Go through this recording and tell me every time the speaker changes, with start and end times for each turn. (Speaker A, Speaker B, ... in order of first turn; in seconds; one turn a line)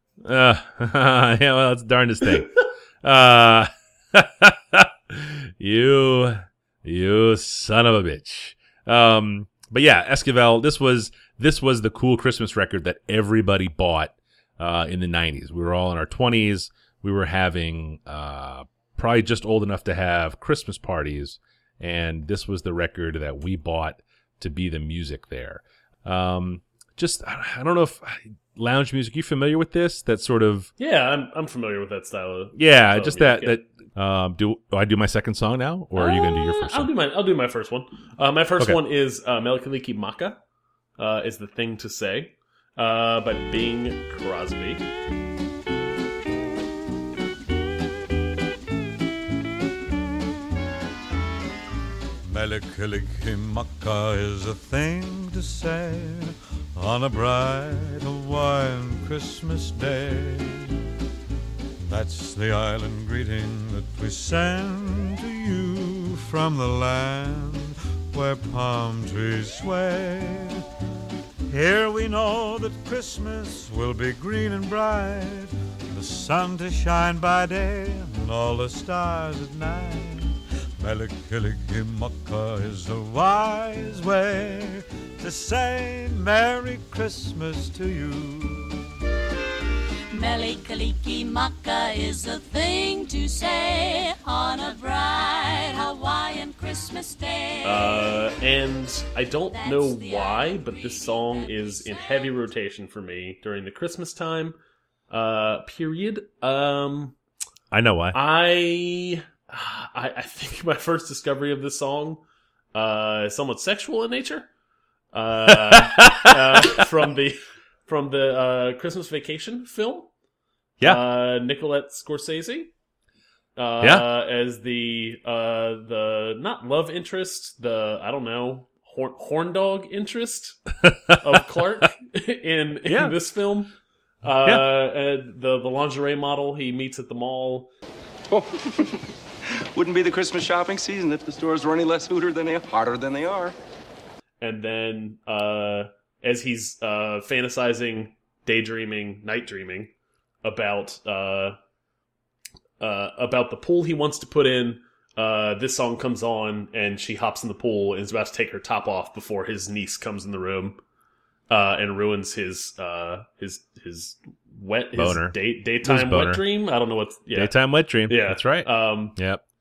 Speaker A: 0.2-30.7
Speaker B: 30.8-33.6
Speaker A: 32.5-36.9
Speaker B: 35.9-40.4
Speaker B: 41.0-44.8
Speaker C: 52.2-60.7
Speaker C: 61.8-70.6
Speaker C: 71.5-88.8
Speaker D: 90.1-98.3
Speaker B: 97.6-104.6
Speaker D: 99.5-102.5
Speaker B: 105.1-107.2
Speaker A: 107.7-108.2
Speaker B: 108.1-112.2
Speaker B: 112.7-114.5
Speaker B: 115.1-120.1
Speaker A: 115.8-116.7
Speaker B: 120.8-122.7
Speaker B: 123.5-137.7
Speaker A: 130.8-131.2
Speaker A: 132.8-133.1
Speaker E: 138.3-139.1
Speaker E: 139.8-143.5
Speaker B: 144.4-151.6
Speaker B: 152.8-160.8
Speaker B: 161.5-167.5
Speaker A: 164.9-166.4
Speaker A: 167.3-169.4
Speaker B: 168.1-169.2